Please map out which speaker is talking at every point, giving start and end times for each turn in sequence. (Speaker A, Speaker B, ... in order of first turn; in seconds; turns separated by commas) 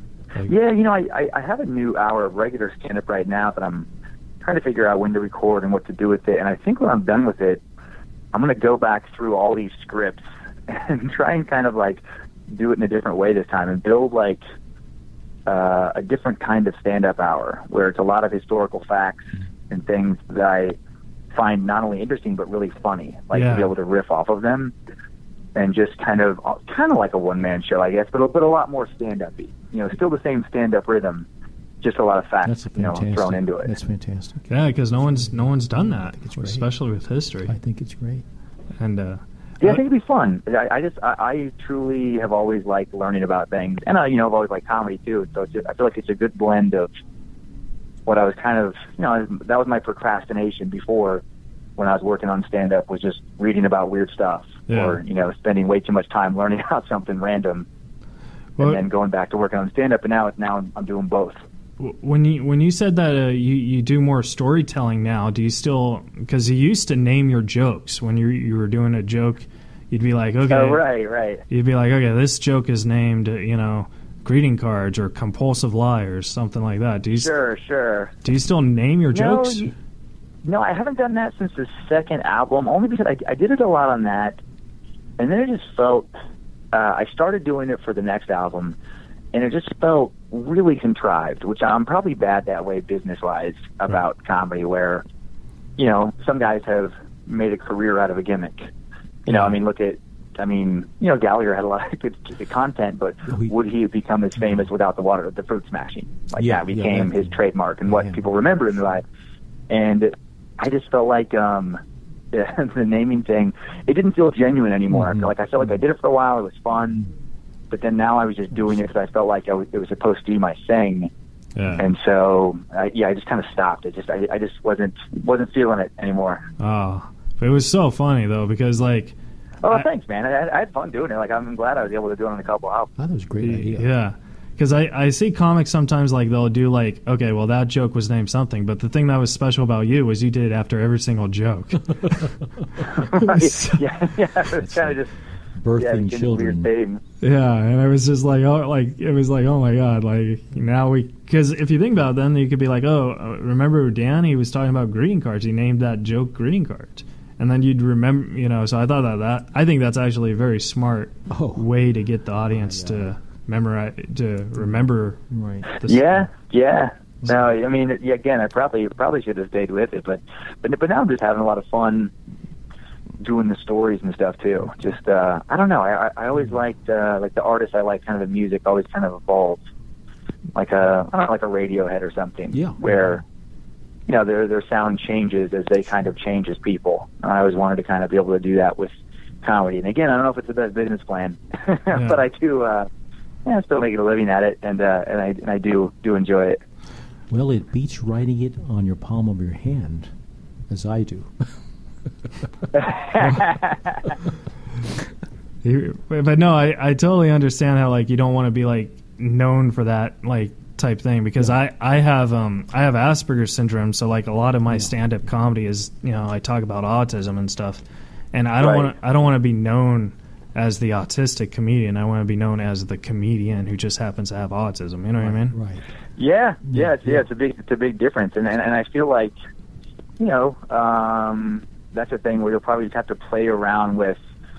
Speaker A: 0.4-3.9, Speaker A: 4.4-7.6, Speaker A: 8.3-14.4, Speaker A: 15.5-20.8, Speaker A: 21.3-24.7, Speaker B: 23.3-23.7, Speaker A: 25.6-31.3, Speaker A: 31.8-33.7, Speaker C: 32.4-36.7, Speaker B: 34.5-37.5, Speaker C: 37.5-38.2, Speaker B: 38.8-39.8, Speaker A: 39.6-46.9, Speaker A: 48.1-51.2, Speaker A: 51.8-57.7, Speaker B: 54.7-55.0, Speaker B: 58.6-58.8, Speaker A: 58.6-61.4, Speaker B: 61.8-70.8, Speaker A: 70.5-71.4, Speaker B: 71.5-77.3, Speaker A: 77.2-78.1, Speaker B: 78.2-79.7, Speaker A: 79.1-79.7, Speaker A: 80.5-84.4, Speaker A: 85.2-86.1, Speaker A: 86.7-88.8, Speaker A: 89.3-95.0, Speaker A: 95.8-98.7, Speaker A: 99.3-109.0, Speaker C: 103.3-103.5, Speaker C: 106.4-108.3, Speaker A: 109.7-111.8, Speaker A: 112.3-117.1, Speaker C: 114.9-115.3, Speaker A: 117.7-121.1, Speaker B: 121.6-121.8, Speaker A: 121.8-126.5, Speaker B: 126.6-129.2, Speaker A: 129.6-132.9, Speaker C: 133.0-133.9, Speaker B: 133.4-142.3, Speaker A: 142.9-145.1, Speaker B: 143.1-143.8, Speaker C: 144.6-145.0, Speaker C: 145.6-146.7, Speaker A: 145.8-147.0, Speaker B: 147.2-166.2, Speaker C: 161.3-161.7, Speaker C: 162.5-163.1, Speaker C: 165.3-165.7, Speaker A: 165.8-172.1, Speaker A: 173.2-179.6, Speaker A: 180.6-183.2, Speaker C: 182.5-182.9, Speaker A: 184.1-192.9, Speaker B: 191.9-192.2, Speaker A: 193.4-196.6, Speaker C: 197.3-200.1, Speaker C: 200.7-201.5, Speaker A: 202.8-204.1, Speaker B: 205.6-217.8, Speaker B: 218.3-225.6, Speaker A: 218.6-218.9, Speaker C: 225.2-225.8, Speaker A: 226.2-229.3, Speaker C: 226.7-227.2, Speaker A: 230.2-234.2